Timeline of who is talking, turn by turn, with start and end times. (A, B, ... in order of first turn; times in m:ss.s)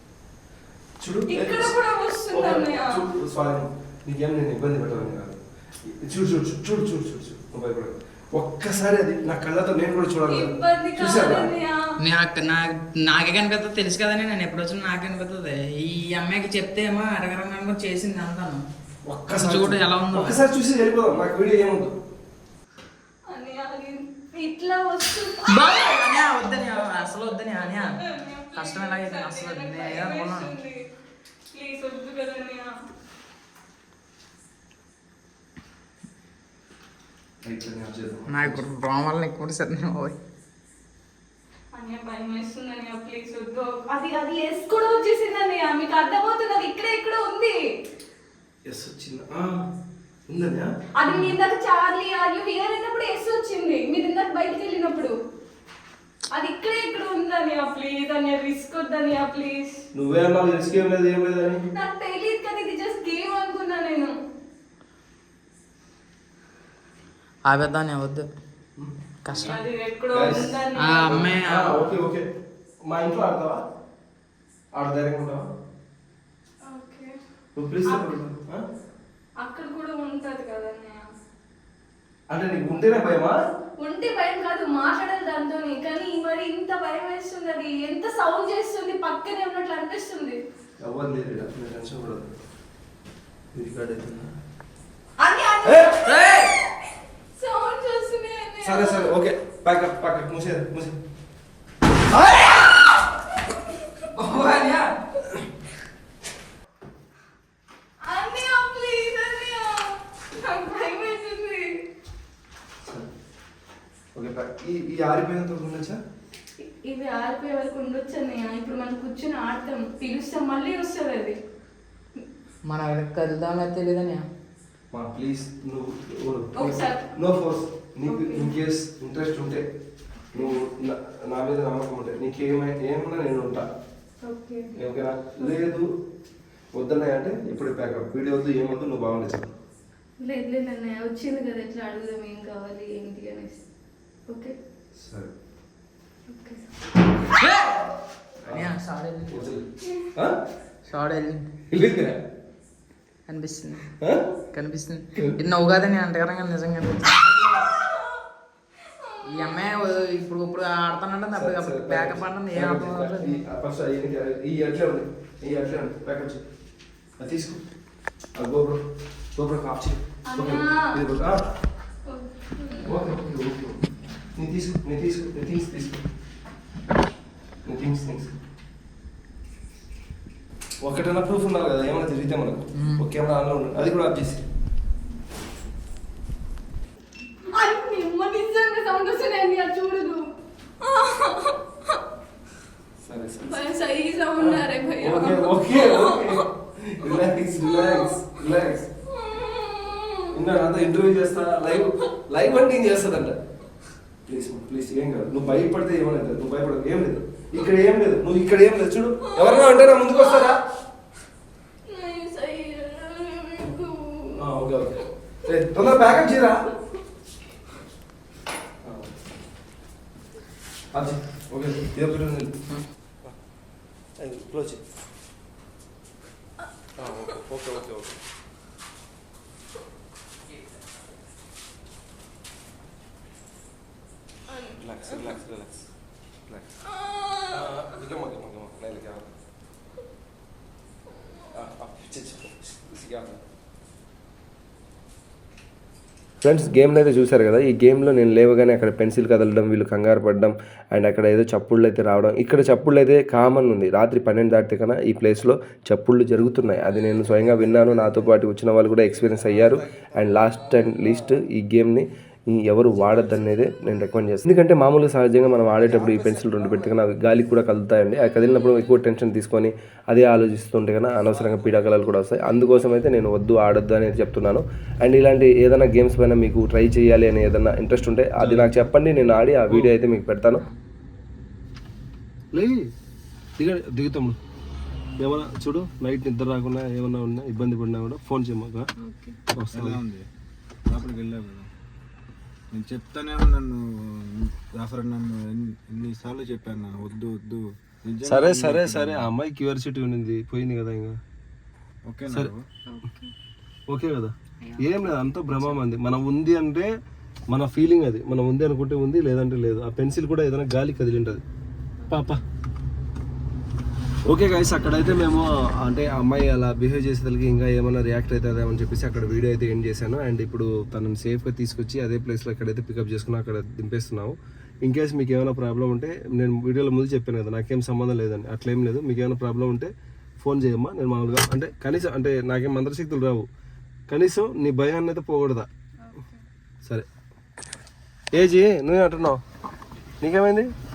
0:01.0-0:01.8 A
0:01.3-0:03.0 B
0:02.3-0:11.5 A
0:10.3-0:11.8 B
0:12.0-0:18.6 C
0:19.0-0:21.9 A
0:19.3-0:20.4 C
0:23.3-0:26.0 B
0:25.5-0:28.0 C
0:28.0-0:30.8 B
0:28.6-0:30.5 C
0:31.5-0:32.7 B
0:37.4-0:38.6 A
0:38.3-0:40.2 C
0:41.8-0:47.6 B
0:48.7-0:49.7 A
0:50.3-0:50.7 A
0:51.0-0:55.1 B
0:51.1-0:51.3 C
0:56.3-0:59.8 B
1:00.0-1:01.6 A
1:01.7-1:04.1 B
1:07.5-1:08.3 C
1:08.8-1:09.5 A
1:09.2-1:09.6 C
1:09.3-1:11.4 B
1:10.1-1:10.5 A
1:10.8-1:12.0 C
1:11.0-1:12.3 A
1:12.9-1:13.6 A
1:14.8-1:15.4 A
1:16.7-1:17.1 B
1:17.6-1:18.6 A
1:17.9-1:18.2 B
1:19.4-1:21.1 B
1:22.3-1:23.4 A
1:23.8-1:30.4 B
1:30.8-1:32.3 A
1:33.5-1:34.3 A
1:35.2-1:36.1 B
1:35.6-1:36.0 A
1:36.1-1:36.5 C
1:37.4-1:39.1 B
1:38.6-1:41.0 A
1:44.2-1:44.9 C
1:48.0-1:51.7 B
1:52.8-1:53.1 A
1:54.1-1:56.0 A
1:56.6-2:01.4 B
2:02.7-2:04.2 C
2:04.9-2:09.6 A
2:06.6-2:07.2 B
2:08.1-2:08.5 B
2:10.3-2:10.6 B
2:10.3-2:13.7 A
2:14.2-2:14.7 B
2:14.8-2:15.9 A
2:16.7-2:19.6 A
2:20.2-2:23.6 B
2:24.3-2:24.6 B
2:25.0-2:25.3 A
2:26.3-2:26.6 B
2:27.4-2:27.9 C
2:28.4-2:28.7 A
2:28.5-2:29.6 C
2:29.3-2:30.4 A
2:29.8-2:30.1 B
2:30.9-2:31.5 C
2:31.7-2:32.2 A
2:33.3-2:33.9 C
2:34.0-2:34.3 A
2:34.5-2:37.7 C
2:38.8-2:39.6 B
2:39.2-2:43.4 C
2:41.3-2:46.4 A
2:47.2-2:47.6 A
2:48.4-2:48.8 A
2:49.4-2:51.5 A
2:50.3-2:51.0 B
2:52.1-2:52.9 B
2:52.8-2:53.8 A
2:54.4-2:56.1 A
2:57.6-2:58.3 A
3:00.8-3:04.4 A
3:02.8-3:03.1 C
3:07.5-3:12.0 B
3:13.0-3:13.7 A
3:13.5-3:16.4 B
3:14.4-3:18.9 A
3:17.6-3:20.3 B
3:20.3-3:23.4 A
3:24.3-3:30.6 A
3:29.2-3:30.5 B
3:31.9-3:34.4 B
3:34.4-3:36.7 A
3:38.8-3:39.2 A
3:40.9-3:42.6 A
3:44.2-3:44.8 A
3:47.0-3:48.2 A
3:54.5-3:55.4 B
3:54.8-3:55.9 A
3:56.9-3:57.6 B
3:57.5-3:59.3 A
4:01.5-4:03.4 A
4:06.4-4:40.6 A
4:17.2-4:18.3 D
4:19.1-4:21.4 D
4:23.1-4:23.4 D
4:25.8-4:27.0 D
4:31.3-4:32.1 D
4:38.4-4:38.9 D
4:42.5-4:42.9 A
4:43.6-4:44.4 A
4:45.2-4:48.9 A
4:49.0-4:49.4 B
4:49.5-4:50.0 A
4:49.7-4:50.2 D
4:50.9-4:51.7 D
4:52.7-4:59.3 D
4:58.2-5:01.2 A
5:02.1-5:02.7 D
5:02.9-5:03.3 B
5:03.9-5:06.9 A
5:04.6-5:05.0 B
5:05.5-5:05.8 B
5:07.5-5:11.4 A
5:12.1-5:12.4 A
5:14.3-5:33.5 A
5:34.1-5:35.7 A
5:36.0-5:36.4 B
5:38.3-5:39.4 A
5:40.2-5:40.7 A